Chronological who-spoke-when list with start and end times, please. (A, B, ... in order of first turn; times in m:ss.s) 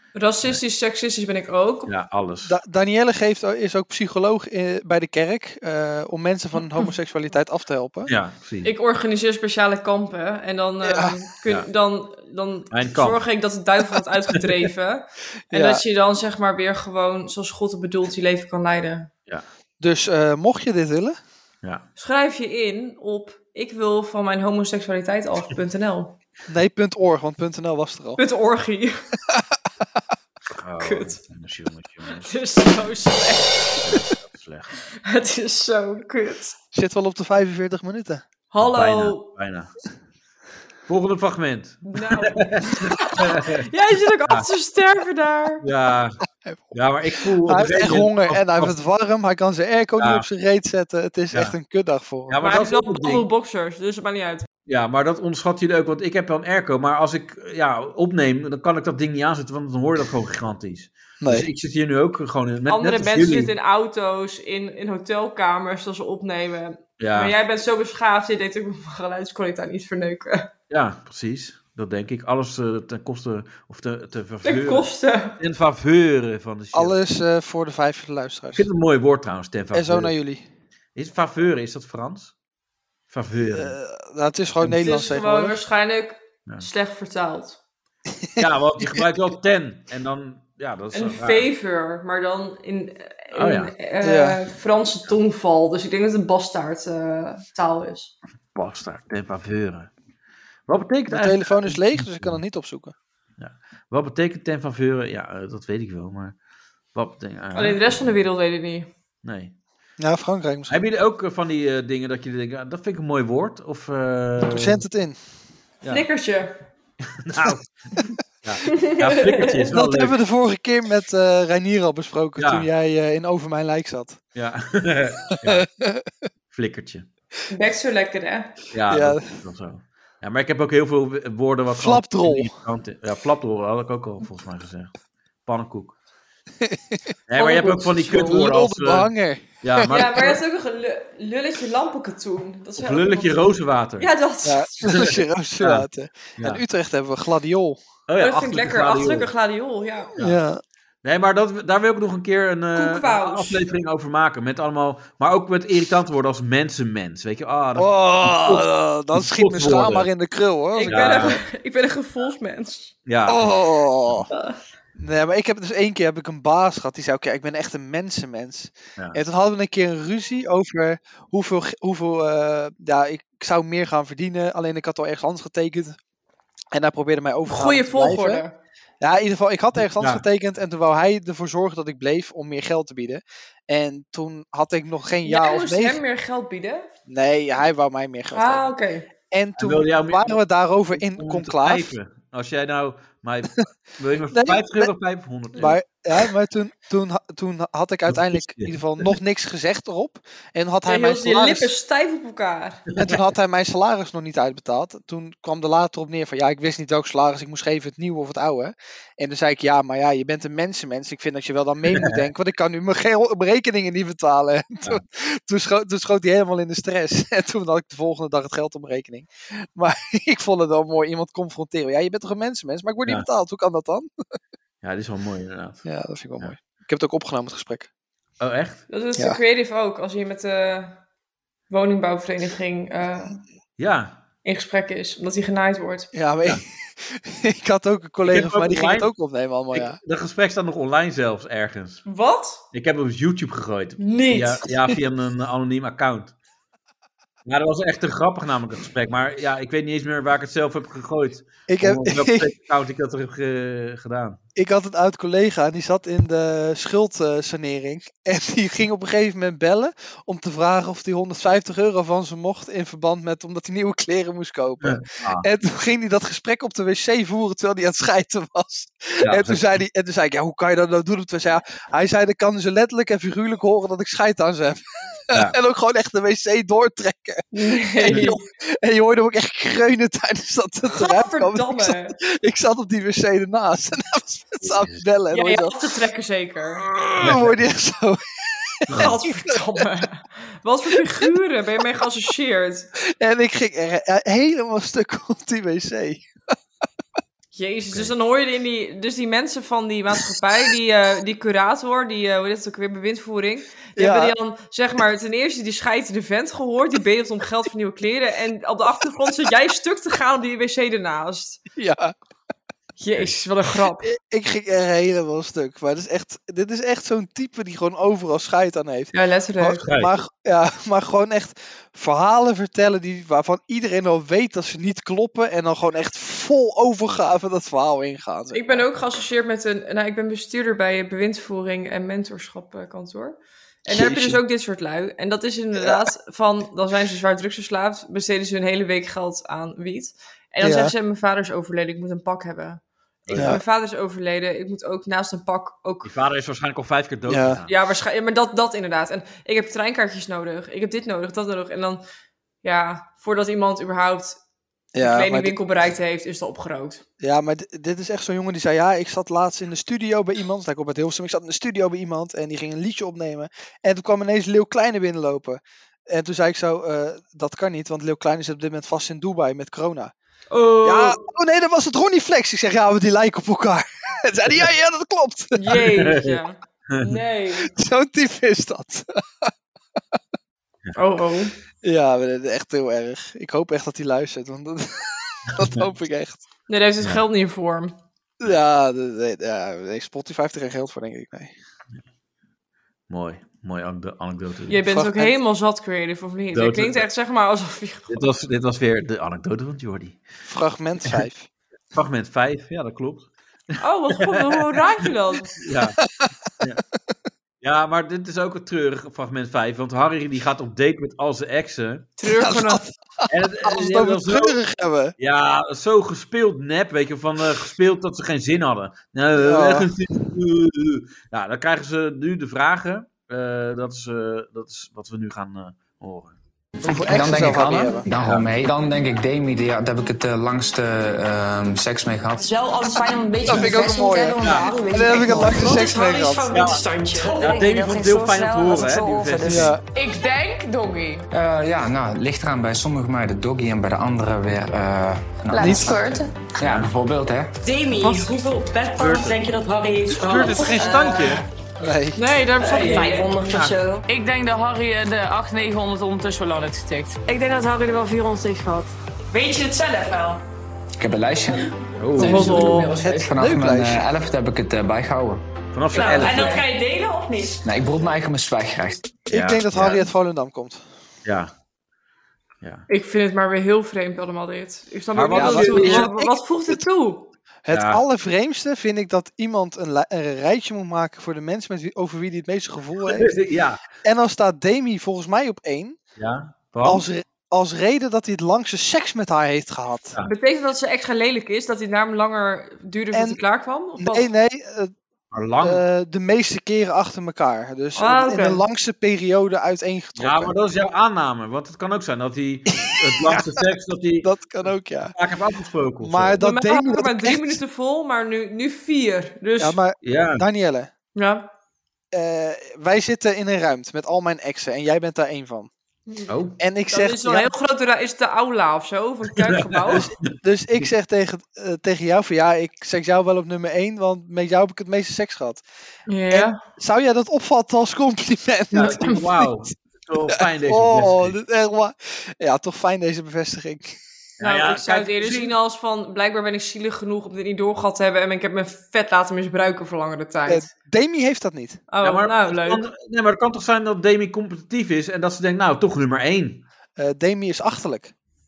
0:00.1-0:01.9 A
0:01.9-0:02.6 B
0:02.4-0:08.1 C
0:08.1-0:08.7 B
0:08.6-0:19.1 A
0:10.8-0:11.2 C
0:12.7-0:13.2 B
0:15.5-0:15.8 C
0:19.8-0:21.2 C
0:22.0-0:26.2 A
0:26.5-0:28.2 C
0:28.2-0:29.0 A
0:29.3-0:29.6 C
0:30.5-0:32.3 B
0:30.8-0:31.2 A
0:32.2-0:33.8 A
0:33.8-0:34.7 B
0:35.0-0:36.6 A
0:36.7-0:38.2 C
0:38.5-0:39.3 A
0:38.6-0:39.7 B
0:40.9-0:43.6 B
0:41.9-0:45.6 A
0:45.6-0:46.2 B
0:46.7-0:48.7 B
0:47.2-0:52.4 C
0:50.0-0:50.2 B
0:52.3-0:53.2 B
0:52.4-0:54.5 A
0:54.7-1:03.5 B
1:01.2-1:01.5 C
1:02.7-1:10.5 A
1:07.0-1:07.3 B
1:10.7-1:17.0 B
1:14.4-1:15.4 A
1:16.7-1:18.7 C
1:18.5-1:20.1 B
1:19.7-1:20.4 C
1:20.9-1:22.3 B
1:23.1-1:23.7 B
1:23.5-1:25.6 C
1:24.8-1:27.6 A
1:28.2-1:29.0 C
1:28.4-1:31.5 B
1:30.9-1:38.1 A
1:33.3-1:33.7 B
1:34.0-1:34.4 C
1:38.5-1:39.9 B
1:40.7-1:42.4 B
1:41.1-1:42.9 C
1:43.4-1:46.4 B
1:46.9-1:48.1 B
1:47.5-1:48.9 A
1:49.2-1:49.5 B
1:50.0-1:50.8 C
1:50.7-1:54.8 B
1:54.4-1:55.2 C
1:55.9-1:56.6 A
1:57.2-2:00.2 B
1:58.7-1:59.7 A
1:59.7-2:04.2 C
2:02.4-2:02.7 B
2:04.3-2:05.6 B
2:05.4-2:06.1 C
2:06.5-2:07.1 B
2:07.5-2:08.6 A
2:08.7-2:14.9 B
2:08.9-2:09.3 C
2:11.7-2:12.5 C
2:15.4-2:15.9 B
2:16.6-2:17.0 C
2:17.3-2:19.1 B
2:17.4-2:18.4 A
2:18.1-2:20.0 C
2:19.6-2:20.4 B
2:19.9-2:23.5 A
2:22.8-2:24.1 B
2:24.0-2:24.9 A
2:24.4-2:27.8 C
2:24.8-2:25.8 B
2:26.4-2:26.6 B
2:28.1-2:29.3 B
2:28.2-2:30.1 A
2:30.2-2:30.6 C
2:31.0-2:40.1 B
2:32.8-2:33.6 A
2:37.8-2:41.4 C
2:40.8-2:42.9 A
2:40.9-2:41.4 B
2:43.0-2:44.3 B
2:43.3-2:44.3 C
2:45.0-2:56.0 C
2:56.7-2:58.4 C
2:57.4-2:58.5 A
2:59.0-3:06.0 C
2:59.8-3:00.2 B
3:05.2-3:06.9 A
3:07.1-3:08.7 C
3:08.3-3:09.1 A
3:09.3-3:11.9 C
3:09.6-3:10.4 B
3:10.9-3:15.8 B
3:14.3-3:14.9 C
3:15.6-3:21.7 C
3:18.1-3:19.1 B
3:20.8-3:22.8 A
3:22.9-3:44.1 C
3:31.9-3:32.2 B
3:44.8-3:45.8 B
3:45.8-3:47.9 C
3:48.4-3:48.8 B
3:48.9-3:51.0 A
3:51.7-3:53.4 A
3:53.8-3:54.2 B
3:54.4-3:56.1 A
3:56.1-4:00.0 C
3:58.2-3:59.1 B
3:59.7-4:02.0 B
4:02.0-4:02.6 A
4:02.7-4:06.3 B
4:04.0-4:04.6 A
4:07.4-4:14.4 B
4:11.7-4:12.5 C
4:14.6-4:45.8 C
4:24.8-4:25.5 B
4:29.2-4:29.8 B
4:37.5-4:38.4 A
4:40.9-4:42.2 A
4:44.6-4:45.0 B
4:45.3-4:46.8 A
4:46.8-4:49.2 C
4:47.2-4:47.5 B
4:48.9-4:52.9 A
4:50.9-4:51.3 C
4:53.2-4:56.3 C
4:57.5-5:11.6 A
5:04.0-5:04.3 C
5:11.8-5:12.1 C
5:13.0-5:14.1 A
5:14.0-5:28.8 C
5:19.1-5:19.8 A
5:19.8-5:20.2 B
5:28.5-5:46.1 A
5:33.9-5:34.4 C
5:35.8-5:36.0 C
5:40.6-5:40.9 C
5:43.3-5:43.6 B
5:43.3-5:43.6 C
5:46.0-5:47.8 B
5:47.3-5:47.6 C
5:47.7-5:52.0 A
5:52.6-5:54.4 A
5:54.9-5:55.6 C
5:55.0-5:57.0 A
5:57.2-6:10.1 C
6:10.5-6:11.2 A
6:10.8-6:15.6 C
6:15.6-6:17.7 A
6:15.7-6:16.4 B
6:17.6-6:19.5 C
6:20.9-6:21.5 A
6:21.8-6:26.4 C
6:26.7-6:28.0 A
6:28.4-6:31.5 C
6:33.1-6:34.8 B
6:34.7-6:38.2 A
6:34.9-6:35.3 C
6:36.5-6:37.0 B
6:38.1-6:40.2 B
6:40.4-6:41.5 C
6:41.9-6:44.8 B
6:43.8-6:45.6 A
6:45.6-6:46.0 B
6:46.0-6:46.3 C
6:47.6-6:52.1 B
6:52.2-6:52.8 A
6:52.4-6:55.1 C
6:53.3-6:54.6 B
6:55.2-7:06.3 B
6:59.4-6:59.9 C
7:06.8-7:08.0 C
7:06.8-7:12.5 D
7:08.2-7:08.5 B
7:12.4-7:19.7 E
7:12.9-7:17.6 F
7:13.4-7:16.5 C
7:14.4-7:14.7 B
7:16.5-7:16.8 B
7:17.4-7:19.8 B
7:19.4-7:19.8 C
7:19.9-7:21.0 F
7:21.3-7:27.5 D
7:25.5-7:26.3 E
7:25.6-7:26.0 C
7:26.6-7:26.9 B
7:27.6-7:31.4 E
7:27.9-7:28.3 F
7:29.0-7:29.4 B
7:30.0-7:31.4 B
7:30.4-7:30.7 F
7:31.8-7:32.2 C
7:32.2-7:33.1 A
7:32.6-7:34.1 E
7:32.6-7:35.3 F
7:36.0-7:37.0 F
7:37.2-7:40.4 E
7:41.0-7:45.4 D
7:42.0-7:42.6 B
7:42.2-7:42.9 A
7:42.3-7:43.1 E
7:43.0-7:44.0 C
7:45.7-7:46.6 B
7:45.9-7:47.6 E
7:46.1-7:46.6 F
7:47.6-7:49.1 D
7:49.3-7:50.8 C
7:49.3-7:50.1 B
7:51.2-7:51.5 B
7:52.9-7:57.3 A
7:55.1-7:56.1 B
7:55.3-7:56.8 C
7:57.6-8:03.3 C
7:57.7-7:58.0 B
8:03.0-8:03.8 B
8:04.0-8:06.0 C
8:06.2-8:07.0 B
8:06.8-8:10.1 C
8:10.2-8:14.3 A
8:13.1-8:13.4 C
8:14.0-8:14.9 C
8:15.3-8:15.8 B
8:15.6-8:20.5 C
8:18.0-8:18.6 A
8:20.2-8:26.4 B
8:22.8-8:23.5 C
8:24.2-8:25.1 C
8:26.0-8:27.6 C
8:26.4-8:29.8 A
8:29.6-8:30.9 C
8:30.0-8:30.4 B
8:31.1-8:31.5 A
8:32.1-8:35.7 C
8:36.3-8:36.6 B
8:36.6-8:37.5 C
8:36.9-8:40.0 A
8:39.5-8:40.0 B
8:39.9-8:45.6 C
8:46.1-8:46.6 A
8:46.3-8:49.2 C
8:48.7-8:51.4 B
8:48.8-8:49.3 A
8:50.3-8:54.0 C
8:54.4-8:55.5 B
8:54.4-9:00.7 A
9:00.4-9:01.8 C
9:01.9-9:02.8 A
9:02.0-9:06.6 B
9:07.0-9:08.1 C